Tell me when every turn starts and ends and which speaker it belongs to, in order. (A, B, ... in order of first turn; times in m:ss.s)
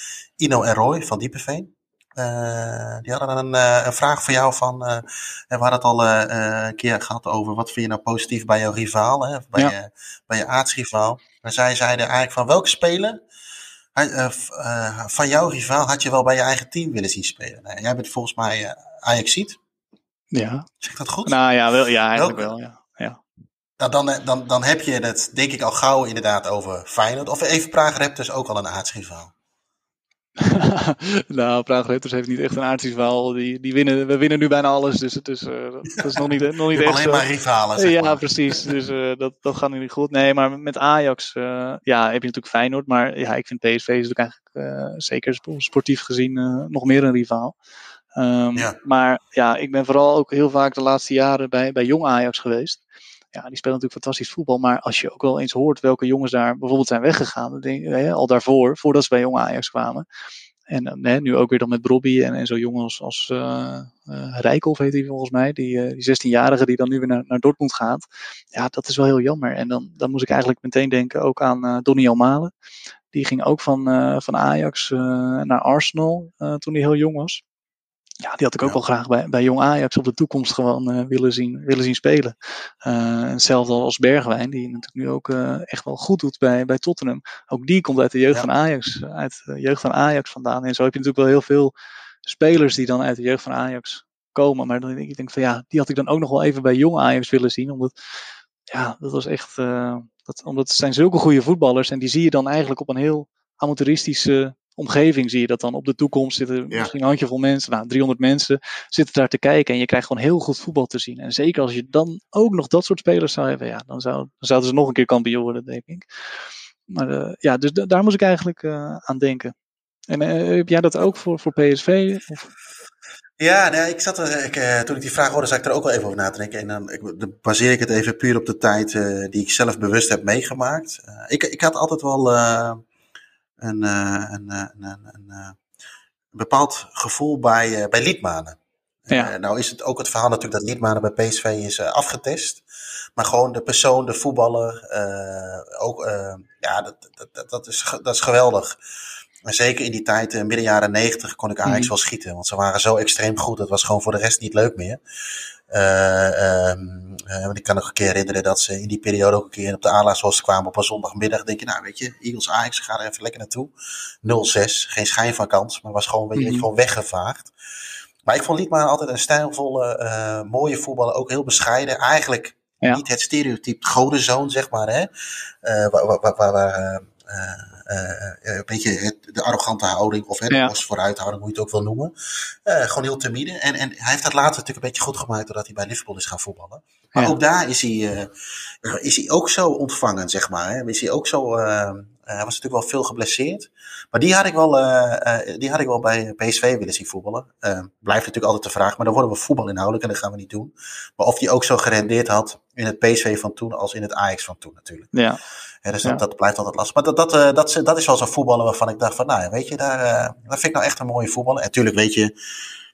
0:00.4-0:13.2 A
0:13.9-0:19.6 A
0:20.3-0:20.7 B
0:20.8-0:21.4 A
0:21.2-0:23.2 B
0:22.1-0:22.5 A
0:23.8-0:29.3 A
0:30.4-0:37.2 B
0:36.7-0:38.7 A
0:37.8-0:47.6 B
0:48.2-0:52.8 B
0:53.3-1:00.0 B
1:00.7-1:08.0 B
1:08.5-1:12.5 B
1:13.1-1:17.4 B
1:18.2-1:31.7 B
1:32.2-1:37.9 B
1:38.7-1:56.0 B
1:56.9-1:59.5 B
2:00.1-2:02.5 B
2:03.4-2:12.8 A
2:13.6-2:15.6 A
2:16.3-2:22.6 A
2:23.2-2:28.8 A
2:29.4-2:35.0 A
2:31.6-2:31.9 B
2:35.7-2:43.7 A
2:44.2-2:47.5 A
2:46.4-2:46.7 B
2:48.2-2:55.1 A
2:55.6-3:02.1 A
3:02.6-3:08.3 A
3:08.8-3:25.1 A
3:25.1-3:25.4 B
3:25.8-3:32.3 A